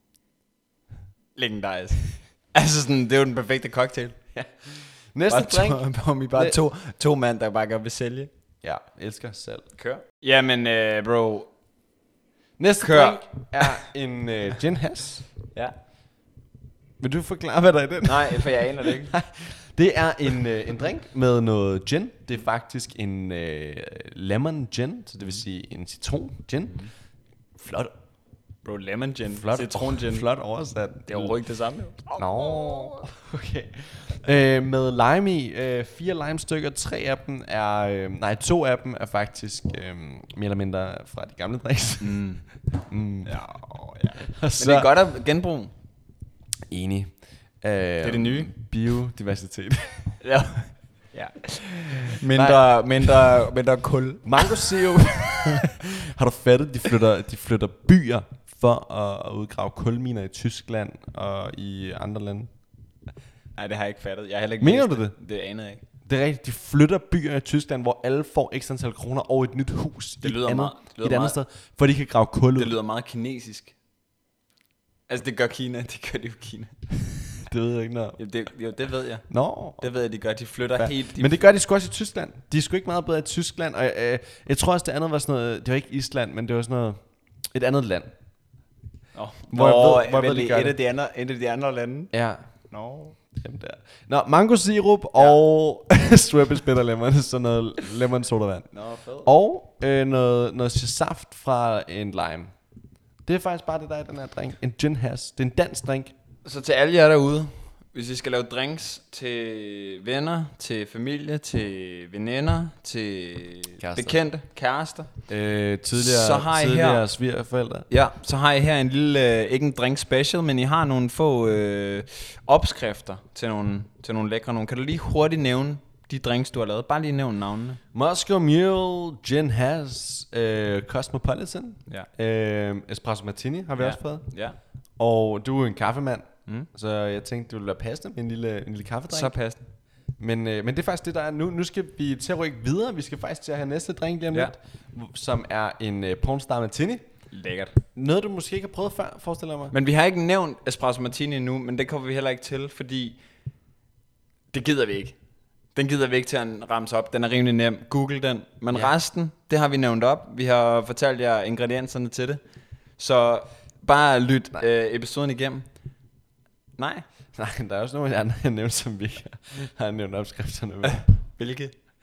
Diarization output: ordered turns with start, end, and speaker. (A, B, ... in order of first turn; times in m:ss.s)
0:01.4-0:04.2 A
0:05.1-0:05.8 B
0:05.3-0:08.3 A
0:06.3-0:06.6 B
0:08.6-0:09.6 B
0:09.8-0:11.5 A
0:12.6-0:15.3 B
0:12.8-0:13.8 A
0:17.0-0:26.9 B
0:18.0-0:19.1 A
0:27.6-0:27.9 B
0:28.6-0:30.2 A
0:29.3-0:31.4 B
0:31.1-0:33.0 A
0:32.1-0:43.4 B
0:42.0-0:42.4 A
0:43.2-0:45.7 A
0:44.2-0:44.9 B
0:46.7-0:50.1 B
0:48.0-0:48.5 A
0:50.2-0:54.8 A
0:52.2-0:52.8 B
0:54.2-1:02.5 B
0:55.4-0:55.7 A
1:03.5-1:05.8 A
1:04.6-1:05.1 B
1:06.0-1:12.8 B
1:10.2-1:11.4 A
1:12.6-1:13.7 A
1:15.1-1:16.7 A
1:17.4-1:18.2 B
1:18.2-1:19.2 A
1:19.3-1:19.8 B
1:19.8-1:21.4 A
1:20.8-1:27.0 B
1:27.5-1:28.1 B
1:29.1-1:32.1 A
1:29.5-1:30.8 B
1:32.1-1:32.4 B
1:32.7-1:33.2 A
1:33.3-1:38.7 B
1:38.7-1:39.3 A
1:39.2-1:42.5 B
1:43.2-1:46.1 B
1:46.4-1:55.1 A
1:53.8-1:54.2 B
1:55.3-1:57.8 B
1:55.9-1:57.0 A
1:57.9-2:07.8 A
2:07.9-2:14.2 B
2:13.8-2:14.6 A
2:15.0-2:19.3 B
2:19.1-2:19.6 A
2:20.2-2:27.0 B
2:27.3-2:27.8 A
2:27.9-2:29.7 B
2:29.7-2:33.2 A
2:34.5-2:35.2 A
2:35.7-2:42.4 A
2:43.0-2:45.6 A
2:46.8-2:47.0 A
2:47.3-2:51.1 B
2:50.8-2:51.7 A